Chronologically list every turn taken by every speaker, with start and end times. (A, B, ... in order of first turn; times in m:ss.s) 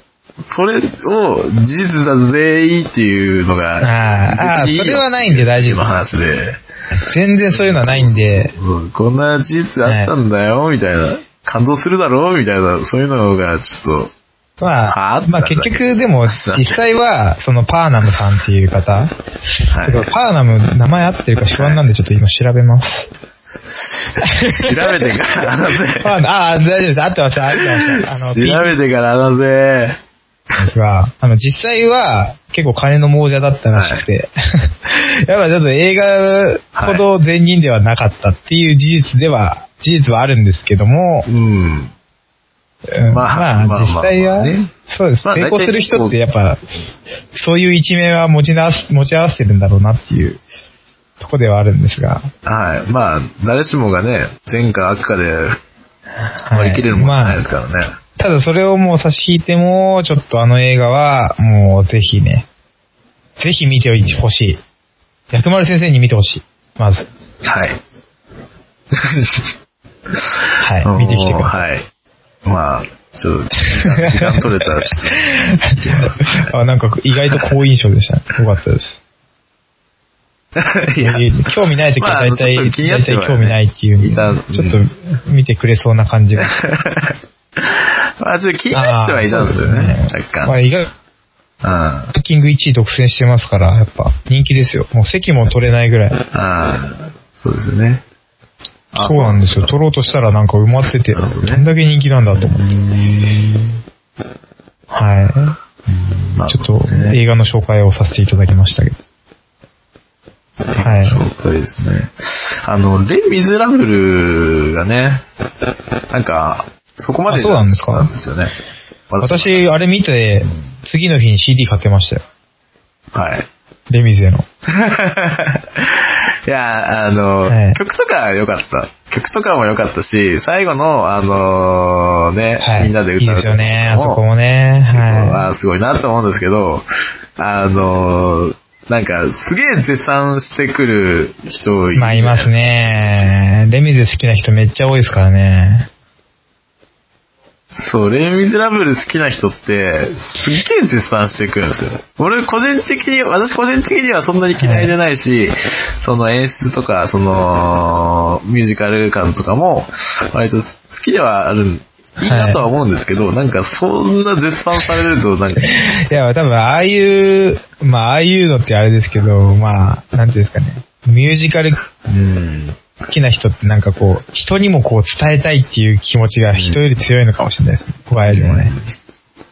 0:00.4-0:06.6 A
0:03.8-0:05.8 B
0:07.0-0:08.5 B
0:07.5-0:14.1 A
0:09.8-0:10.1 B
0:14.6-0:19.1 B
0:14.9-0:16.8 A
0:19.7-0:20.1 A
0:19.8-0:23.1 B
0:21.6-0:21.8 A
0:23.6-0:26.2 A
0:24.2-0:25.2 B
0:26.0-0:28.8 B
0:27.5-0:30.0 A
0:30.6-0:41.3 B
0:33.8-0:34.0 A
0:36.8-0:37.0 A
0:41.3-0:41.9 A
0:42.9-0:50.4 B
0:43.1-0:44.7 A
0:45.2-0:46.2 A
0:51.2-0:52.3 B
0:52.4-0:55.6 A
0:56.4-0:57.4 B
0:56.5-0:57.9 A
0:58.2-1:02.5 B
1:03.4-1:04.6 B
1:05.3-1:07.1 B
1:07.4-1:07.8 A
1:08.9-1:09.5 A
1:10.1-1:11.9 A
1:10.6-1:11.6 B
1:12.4-1:16.5 A
1:13.7-1:19.0 B
1:20.6-1:24.8 A
1:21.0-1:26.6 B
1:26.4-1:30.6 A
1:28.7-1:30.9 B
1:31.6-1:32.1 A
1:32.1-1:36.2 B
1:36.3-1:38.0 A
1:38.9-1:39.8 A
1:39.0-1:42.7 B
1:41.1-1:41.7 A
1:42.4-1:43.8 A
1:44.9-1:45.6 B
1:45.9-1:47.2 A
1:46.5-1:49.0 B
1:50.7-1:55.2 A
1:50.8-1:51.2 B
1:56.1-1:58.6 A
1:57.3-1:58.1 B
1:59.1-1:59.7 A
1:59.2-2:02.2 B
2:00.4-2:00.7 A
2:03.1-2:03.5 A
2:03.9-2:04.5 B
2:04.7-2:14.2 A
2:07.5-2:07.8 B
2:12.6-2:15.5 B
2:14.9-2:16.8 A
2:17.4-2:23.4 A
2:22.0-2:25.9 B
2:27.7-2:46.0 A
2:34.6-2:34.9 B
2:42.2-2:42.7 B
2:45.6-2:51.8 B
2:52.1-2:52.8 A
2:53.1-2:58.7 B
2:56.5-2:56.8 A
2:58.2-2:58.9 A